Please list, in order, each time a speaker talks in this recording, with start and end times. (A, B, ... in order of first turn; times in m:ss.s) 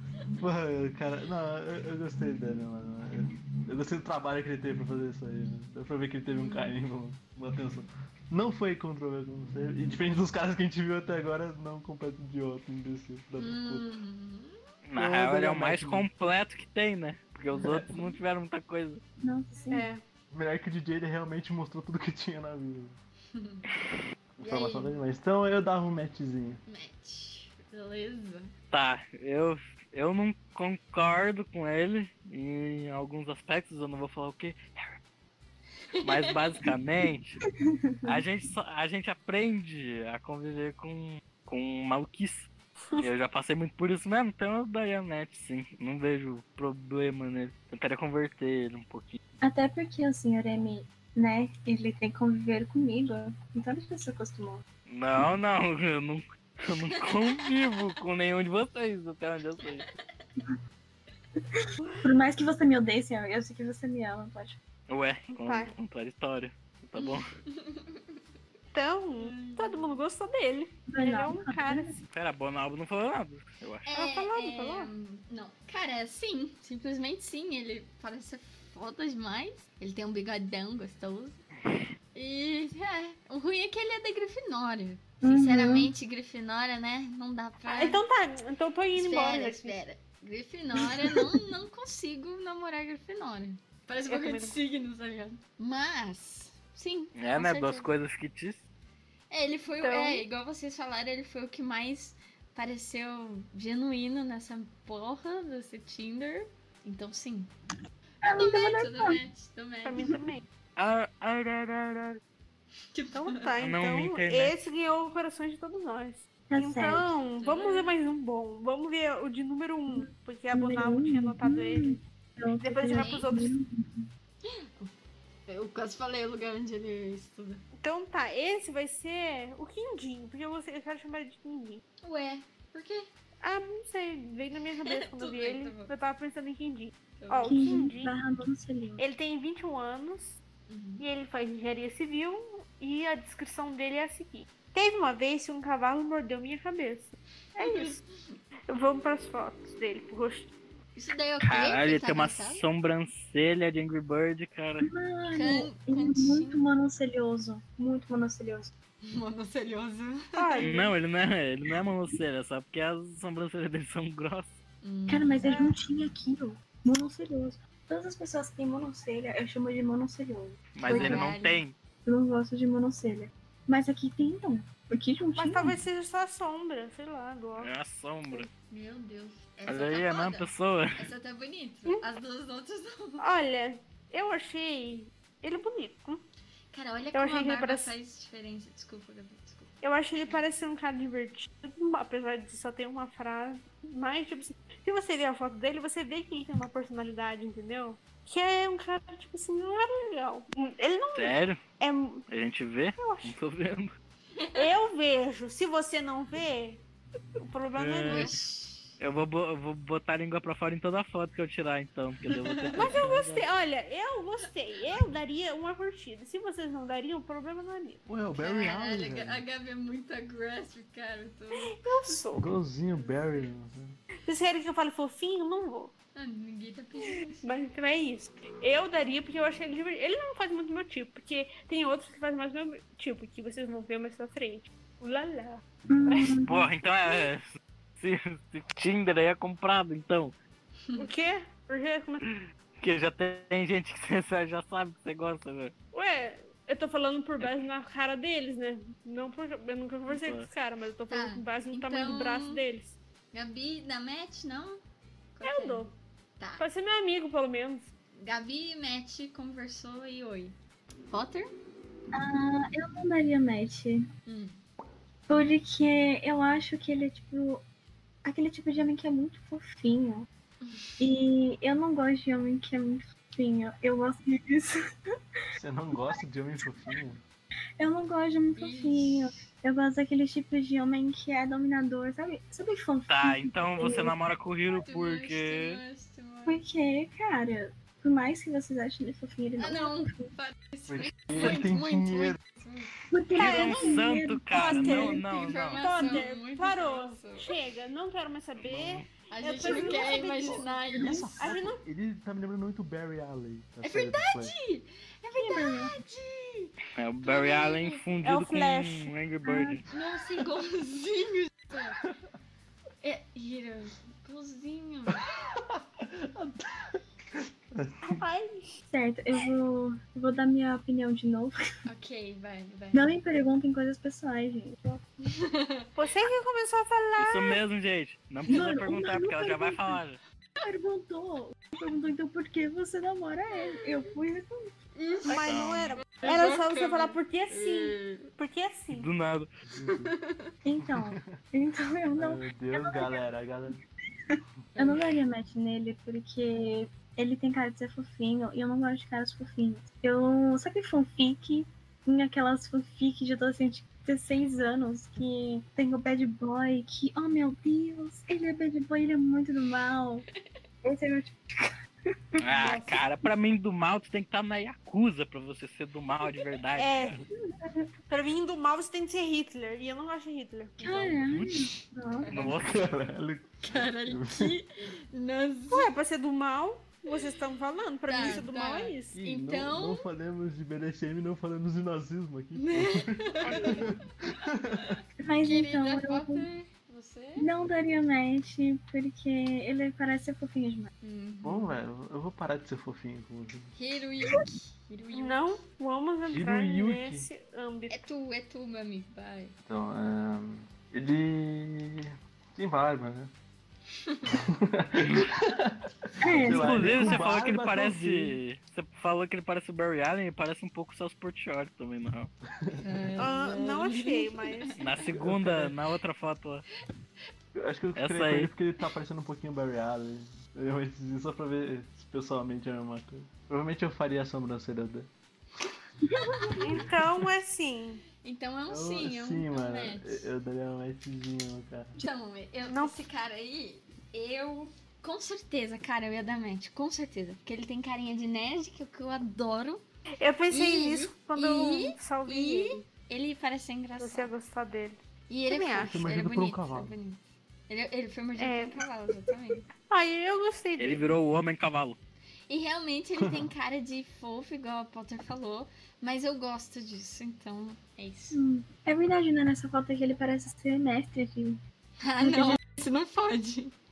0:00.4-0:13.9 A
0:06.3-0:06.8 B
0:13.4-0:14.6 B
0:14.9-0:19.0 C
0:15.0-0:16.1 A
0:17.6-0:18.0 A
0:19.2-0:19.9 D
0:19.7-0:20.0 E
0:20.3-0:23.0 A
0:23.3-0:23.7 B
0:24.4-0:26.6 A
0:24.4-0:25.0 B
0:26.7-0:28.5 B
0:28.7-0:35.0 C
0:36.0-0:36.4 B
0:36.0-0:37.4 C
0:37.6-0:38.2 D
0:38.1-0:49.2 C
0:42.8-0:43.1 E
0:49.4-0:54.6 D
0:54.9-0:59.8 C
0:59.6-1:00.2 B
1:02.0-1:04.6 D
1:04.9-1:07.3 C
1:05.3-1:05.7 E
1:07.0-1:08.2 B
1:08.7-1:12.0 E
1:09.2-1:10.0 B
1:10.9-1:12.0 D
1:12.1-1:13.9 C
1:13.9-1:21.4 B
1:13.9-1:14.9 E
1:22.1-1:28.0 B
1:25.2-1:25.9 D
1:27.6-1:29.8 E
1:28.9-1:37.9 B
1:34.1-1:34.6 E
1:37.2-1:38.6 C
1:39.3-1:47.5 B
1:39.8-1:40.2 E
1:48.2-1:49.2 D
1:48.3-1:50.1 B
1:49.8-1:50.4 E
1:50.8-1:52.2 C
1:52.9-1:53.5 B
1:53.1-2:02.0 E
1:53.6-1:54.6 C
1:56.5-1:57.1 D
1:57.3-1:58.0 B
1:59.9-2:04.1 D
2:02.6-2:03.5 E
2:02.9-2:03.3 B
2:04.4-2:04.9 B
2:05.5-2:07.6 B
2:07.8-2:11.8 E
2:12.0-2:13.1 B
2:13.4-2:18.1 E
2:14.8-2:15.9 B
2:17.2-2:17.9 B
2:17.4-2:19.0 D
2:19.0-2:20.4 E
2:20.7-2:21.1 B
2:21.0-2:28.0 E
2:27.6-2:28.4 B
2:28.7-2:30.5 E
2:31.0-2:32.6 B
2:31.4-2:34.9 C
2:34.8-2:38.7 D
2:35.3-2:36.6 B
2:39.0-2:40.8 B
2:40.4-2:40.9 E
2:40.6-2:44.6 C
2:44.8-2:45.6 B
2:45.1-2:51.2 D
2:50.8-2:51.8 C
2:50.8-2:51.6 B
2:52.0-2:55.8 D
2:55.4-2:57.7 E
2:57.6-2:58.5 C
2:58.7-3:03.3 B
2:59.7-3:01.0 C
3:03.2-3:06.2 E
3:06.7-3:10.4 B
3:07.1-3:07.9 E
3:09.8-3:22.2 E
3:21.1-3:21.6 C
3:22.3-3:23.9 C
3:23.0-3:23.4 E
3:24.4-3:24.7 B
3:24.6-3:26.8 E
3:27.4-3:28.4 E
3:27.8-3:28.4 C
3:28.0-3:29.0 B
3:29.0-3:33.5 C
3:32.3-3:32.9 B
3:32.8-3:38.0 E
3:38.1-3:39.4 A
3:38.4-3:42.3 B
3:41.5-3:42.5 E
3:42.4-3:43.9 A
3:43.0-3:43.5 B
3:44.2-3:45.9 E
3:46.2-3:47.5 B
3:47.0-3:56.5 E
3:55.9-3:56.7 D
3:56.5-3:57.5 C
3:58.0-4:00.3 C
4:01.0-4:02.2 E
4:02.3-4:05.7 C
4:05.9-4:13.0 E
4:10.1-4:10.5 C
4:11.1-4:12.6 B
4:13.3-4:14.8 B
4:15.4-4:16.7 B
4:15.4-4:15.9 E
4:16.6-4:17.8 E
4:18.2-4:20.6 B
4:21.1-4:21.5 B
4:22.1-4:24.0 D
4:24.3-4:24.6 B
4:25.3-4:27.6 D
4:28.2-4:30.3 D
4:30.6-4:31.0 B
4:31.0-4:34.8 D
4:35.6-4:37.2 A
4:37.8-4:44.2 D
4:38.6-4:39.4 B
4:43.1-4:45.8 C
4:44.7-4:46.6 B
4:46.5-4:50.3 D
4:49.6-4:52.9 B
4:50.9-4:52.4 A
4:53.1-4:55.2 D
4:53.4-5:01.8 E
4:53.4-4:56.2 C
4:55.2-4:57.6 B
4:58.6-4:59.1 C
4:59.3-5:01.5 B
4:59.7-5:00.1 D
5:00.6-5:04.6 A
5:03.8-5:08.0 B
5:05.4-5:06.0 D
5:07.0-5:09.8 C
5:08.2-5:09.1 E
5:09.4-5:09.8 D
5:09.9-5:12.0 B
5:13.0-5:15.2 B
5:15.2-5:18.2 A
5:18.0-5:18.7 E
5:18.9-5:21.6 D
5:21.9-5:23.1 B
5:22.9-5:25.0 D
5:25.4-5:25.9 B
5:26.0-5:27.6 E
5:27.2-5:30.2 C
5:28.5-5:30.0 D
5:30.6-5:34.6 D
5:33.5-5:33.8 B
5:35.0-5:38.3 B
5:35.3-5:39.1 E
5:35.5-5:36.1 C
5:38.9-5:39.5 C
5:39.7-5:40.1 A
5:39.8-5:40.5 B
5:40.6-5:43.2 D
5:40.9-5:41.2 A
5:42.2-5:43.8 A
5:44.3-6:00.2 D
5:44.8-5:45.1 B
6:00.8-6:01.7 D
6:02.4-6:07.2 C
6:02.6-6:03.0 E
6:06.8-6:07.2 E
6:07.4-6:07.8 D
6:08.1-6:11.0 E
6:10.8-6:12.3 D
6:10.8-6:11.2 B
6:11.3-6:11.6 C
6:12.2-6:12.5 B
6:12.3-6:12.8 C
6:12.3-6:14.6 A
6:13.6-6:16.0 B
6:15.7-6:19.2 E
6:18.0-6:20.1 B
6:19.1-6:25.0 A
6:22.6-6:24.3 B
6:23.4-6:23.8 E
6:24.8-6:27.5 B
6:25.2-6:26.5 D
6:27.4-6:30.9 D
6:31.0-6:31.8 B
6:31.4-6:33.7 A
6:33.8-6:35.6 B
6:35.1-6:38.0 E
6:36.3-6:37.3 A
6:37.9-6:39.6 B
6:39.6-6:43.3 A
6:44.0-6:44.3 B
6:44.3-6:48.4 A
6:46.2-6:47.0 D
6:46.5-6:52.3 C
6:52.7-6:53.3 A
6:52.8-6:55.0 B
6:53.2-6:54.8 E
6:54.8-6:56.6 C
6:55.1-6:55.8 A
6:57.6-7:05.1 A
6:58.0-6:58.5 C
7:06.0-7:06.7 D
7:06.1-7:06.9 B
7:06.6-7:08.0 E
7:08.2-7:10.3 B
7:08.7-7:12.0 A
7:12.0-7:19.8 B
7:12.6-7:13.0 E
7:20.2-7:22.9 E
7:20.5-7:24.3 B
7:24.0-7:25.9 E
7:25.3-7:29.7 B
7:25.8-7:27.0 A
7:28.4-7:28.8 E
7:29.8-7:31.0 E
7:30.8-7:32.0 C
7:32.5-7:38.4 B
7:33.2-7:33.5 A
7:38.3-7:41.6 D
7:42.0-7:43.7 B
7:42.2-7:42.6 D